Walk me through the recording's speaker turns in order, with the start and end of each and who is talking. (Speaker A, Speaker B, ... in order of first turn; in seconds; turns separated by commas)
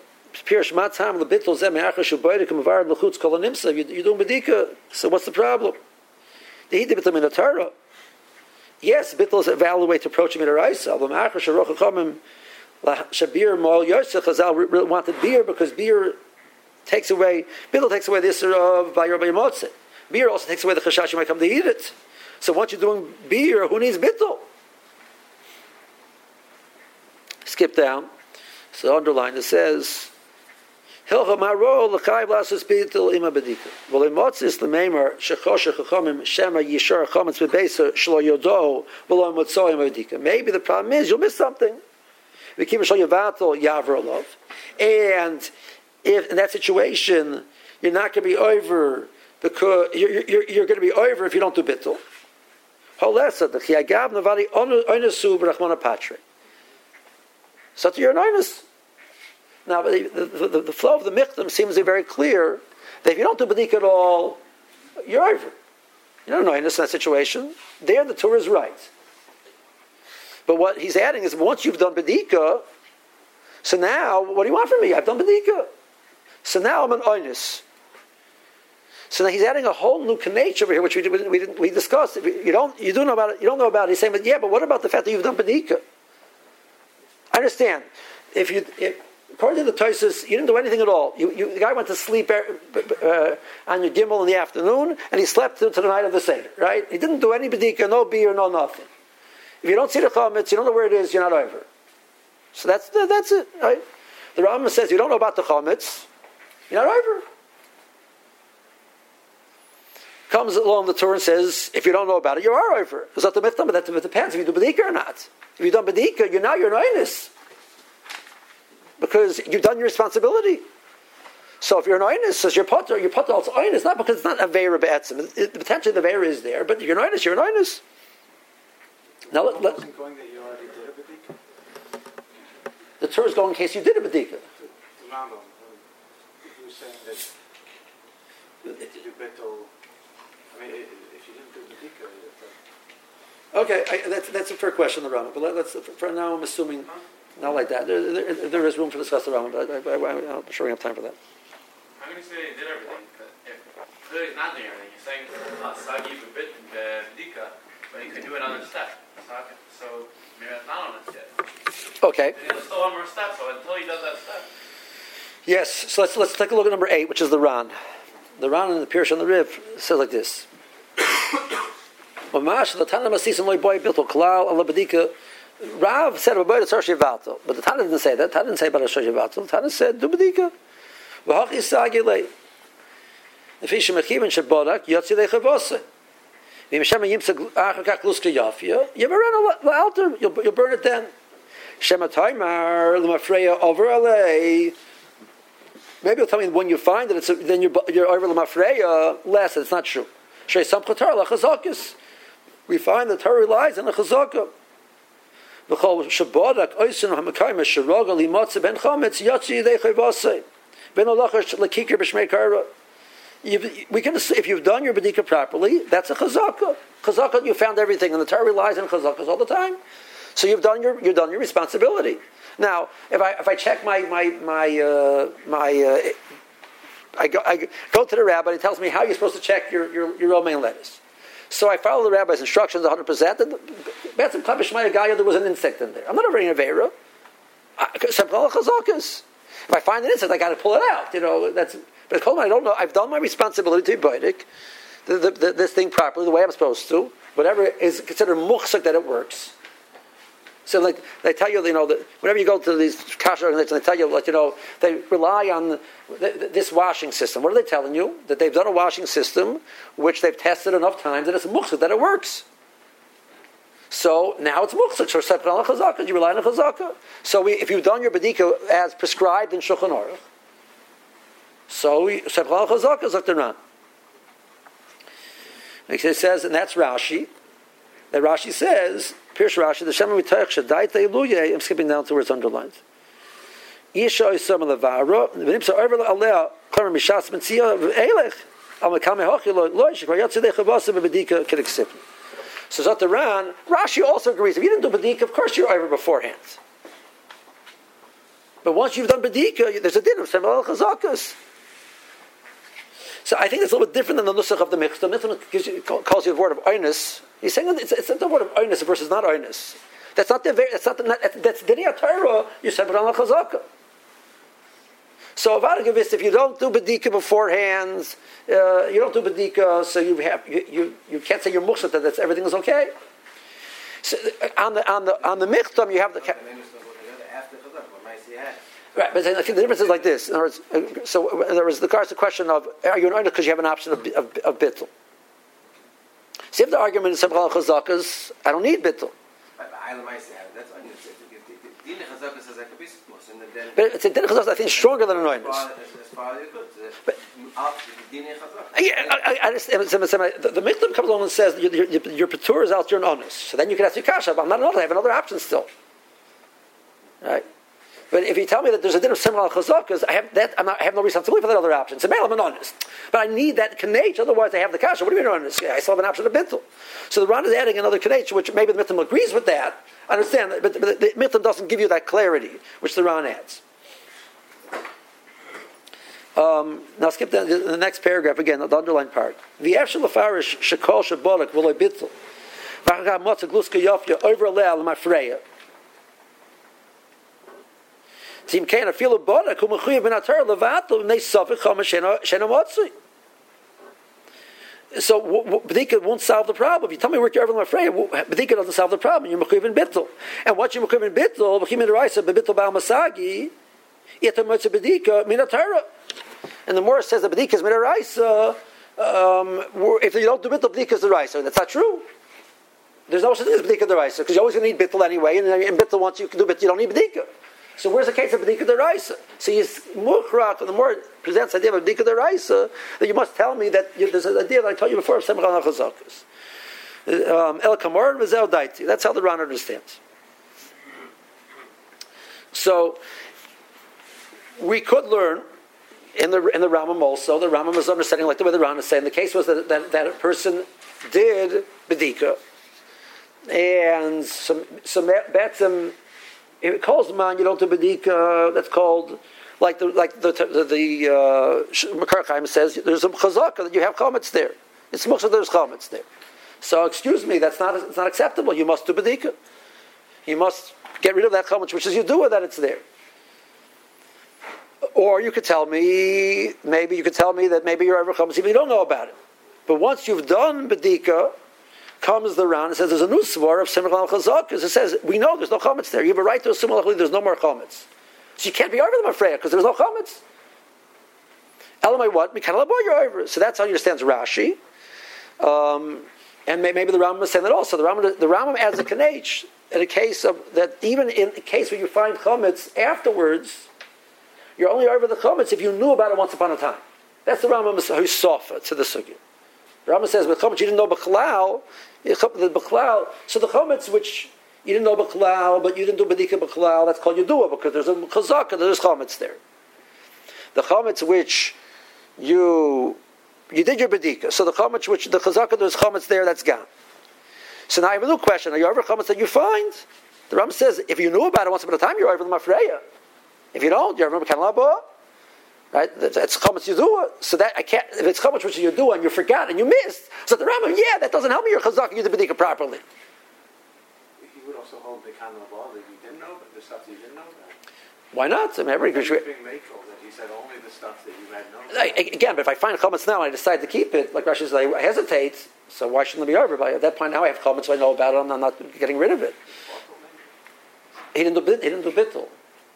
Speaker A: 0.3-5.8, Speaker A: 6.7-7.7, Speaker A: 8.8-12.2, Speaker A: 12.8-16.2, Speaker A: 16.9-24.4, Speaker A: 27.4-28.1, Speaker A: 28.7-30.1, Speaker A: 31.1-41.8, Speaker A: 42.6-45.5, Speaker A: 46.0-52.0, Speaker A: 53.0-56.2, Speaker A: 57.8-58.6, Speaker A: 59.6-64.4, Speaker A: 65.0-65.5, Speaker A: 66.3-68.9, Speaker A: 70.5-72.6, Speaker A: 73.6-75.7, Speaker A: 76.4-77.6, Speaker A: 79.1-85.8, Speaker A: 87.3-98.9, Speaker A: 99.6-101.7, Speaker A: 102.5-103.8, Speaker A: 104.3-106.1, Speaker A: 106.7-107.2, Speaker A: 110.3-117.3, Speaker A: 119.0-120.6, Speaker A: 121.6-127.8, Speaker B: 129.3-131.3, Speaker A: 129.3-129.8, Speaker A: 133.0-134.4, Speaker B: 134.6-135.8, Speaker B: 136.4-137.3, Speaker B: 138.7-139.7, Speaker B: 140.5-142.5, Speaker A: 143.5-151.2, Speaker C: 152.0-161.3, Speaker A: 162.0-162.4, Speaker C: 162.3-164.5, Speaker A: 165.4-167.7, Speaker A: 168.4-170.5, Speaker A: 172.3-180.5, Speaker A: 181.2-182.3, Speaker A: 183.6-185.8, Speaker A: 186.7-191.1, Speaker A: 191.8-194.8, Speaker A: 196.0-201.9, Speaker A: 202.7-204.5, Speaker A: 205.7-212.7, Speaker A: 213.4-219.8, Speaker A: 220.3-226.2, Speaker A: 227.2-236.9, Speaker A: 237.8-244.4, Speaker A: 245.1-249.5, Speaker A: 250.7-262.4, Speaker A: 263.9-270.2, Speaker A: 271.7-273.6, Speaker A: 275.9-277.3, Speaker A: 278.1-282.8, Speaker A: 283.9-292.0, Speaker A: 292.7-296.6, Speaker A: 298.6-301.4, Speaker A: 303.2-313.6, Speaker A: 315.4-322.9, Speaker A: 324.0-326.4, Speaker B: 326.4-328.6, Speaker A: 328.9-334.9, Speaker A: 336.5-339.1, Speaker B: 339.6-343.7, Speaker A: 343.7-345.7, Speaker B: 345.1-347.0, Speaker B: 347.6-348.7, Speaker A: 348.7-355.7, Speaker A: 358.1-373.6, Speaker A: 376.4-382.1, Speaker A: 382.8-385.4, Speaker A: 388.5-392.9, Speaker A: 394.9-403.5, Speaker A: 404.2-405.9, Speaker A: 406.7-412.1, Speaker A: 413.1-426.2, Speaker A: 427.1-430.0, Speaker A: 432.5-433.0, Speaker A: 434.6-435.4, Speaker A: 436.1-442.4, Speaker A: 443.5-445.9, Speaker A: 446.6-456.1, Speaker A: 456.6-459.3, Speaker A: 460.2-462.8, Speaker A: 464.9-469.1, Speaker A: 469.7-471.3, Speaker A: 472.0-477.9, Speaker A: 478.4-480.2, Speaker A: 481.8-484.6, Speaker A: 485.4-493.7, Speaker A: 494.6-499.2, Speaker A: 499.9-509.4, Speaker A: 510.5-511.6, Speaker A: 512.2-513.0, Speaker A: 513.5-516.7, Speaker A: 517.7-522.8, Speaker A: 523.5-524.8, Speaker A: 525.7-532.8, Speaker B: 534.2-537.5, Speaker A: 538.1-539.2, Speaker B: 538.9-542.0, Speaker A: 541.7-549.4, Speaker B: 549.7-550.2, Speaker A: 551.1-552.3